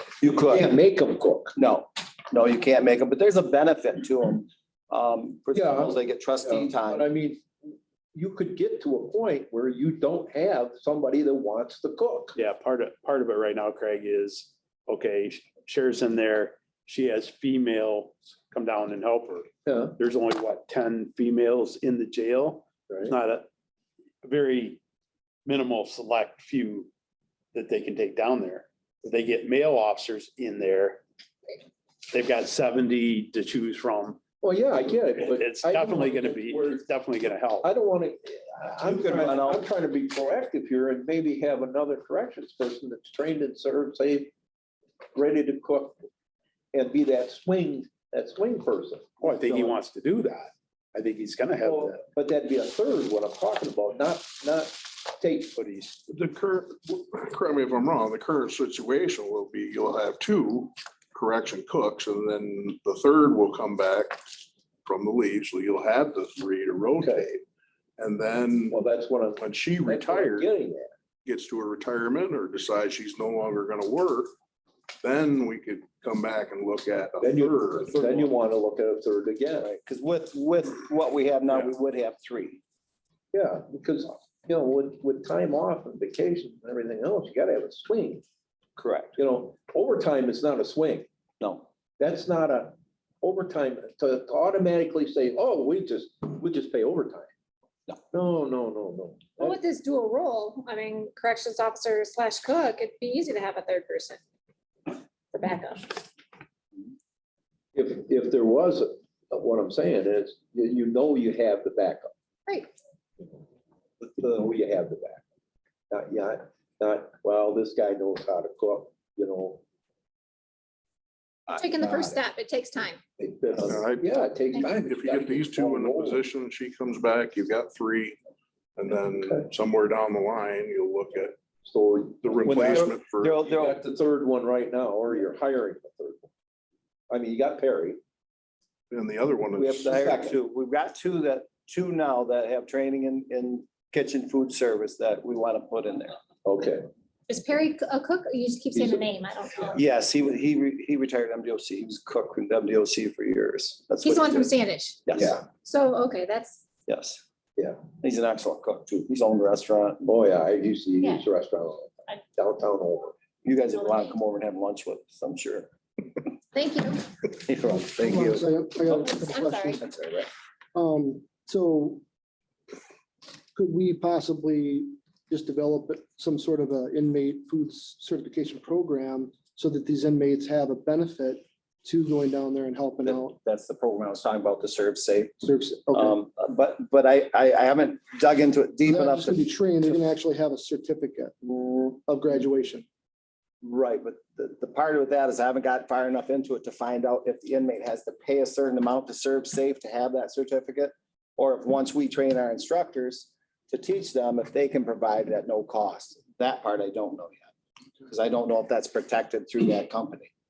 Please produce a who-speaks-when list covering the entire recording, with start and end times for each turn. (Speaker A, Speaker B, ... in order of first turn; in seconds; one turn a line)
Speaker A: 0.2-0.7
Speaker B: 0.5-1.5
Speaker A: 1.6-7.0
Speaker B: 5.5-12.4
Speaker C: 12.4-23.5
Speaker B: 19.7-20.0
Speaker B: 22.9-23.1
Speaker C: 24.2-24.8
Speaker C: 25.5-26.9
Speaker C: 27.5-31.0
Speaker C: 32.1-34.2
Speaker B: 34.4-36.8
Speaker C: 35.2-37.7
Speaker B: 37.6-44.3
Speaker A: 38.8-39.6
Speaker B: 45.1-46.1
Speaker B: 46.7-49.8
Speaker C: 49.2-52.0
Speaker B: 51.6-55.9
Speaker D: 56.1-67.3
Speaker B: 67.0-67.4
Speaker D: 68.0-68.8
Speaker B: 68.7-70.9
Speaker D: 69.4-70.5
Speaker D: 71.2-74.3
Speaker D: 75.0-78.3
Speaker B: 77.2-79.7
Speaker A: 79.6-82.6
Speaker B: 83.3-88.2
Speaker A: 88.8-89.2
Speaker B: 89.2-91.1
Speaker B: 92.0-97.3
Speaker B: 98.1-99.6
Speaker E: 99.4-104.2
Speaker E: 105.3-106.0
Speaker B: 107.8-112.1
Speaker B: 114.0-115.2
Speaker B: 115.9-119.6
Speaker E: 121.5-123.0
Speaker B: 121.8-122.2
Speaker B: 123.2-126.2
Speaker D: 123.5-128.2
Speaker D: 128.8-131.3
Speaker B: 128.9-129.5
Speaker B: 131.6-136.3
Speaker D: 132.2-133.4
Speaker A: 132.5-133.8
Speaker B: 137.1-138.0
Speaker D: 138.9-139.8
Speaker B: 139.6-140.4
Speaker A: 139.7-146.2
Speaker B: 146.4-146.9
Speaker E: 147.3-149.8
Speaker B: 148.7-149.1
Speaker A: 149.7-154.5
Speaker E: 154.0-156.6
Speaker A: 155.1-155.3
Speaker B: 155.2-155.4
Speaker A: 156.9-157.2
Speaker A: 158.0-160.1
Speaker B: 160.0-163.1
Speaker A: 163.4-165.7
Speaker E: 163.7-164.2
Speaker E: 166.5-167.1
Speaker A: 167.3-170.3
Speaker F: 168.0-169.7
Speaker E: 169.0-169.8
Speaker F: 170.7-172.0
Speaker F: 173.5-183.3
Speaker A: 183.0-185.4
Speaker F: 185.4-186.1
Speaker A: 185.9-189.4
Speaker F: 188.9-192.8
Speaker A: 193.6-207.5
Speaker A: 208.1-210.3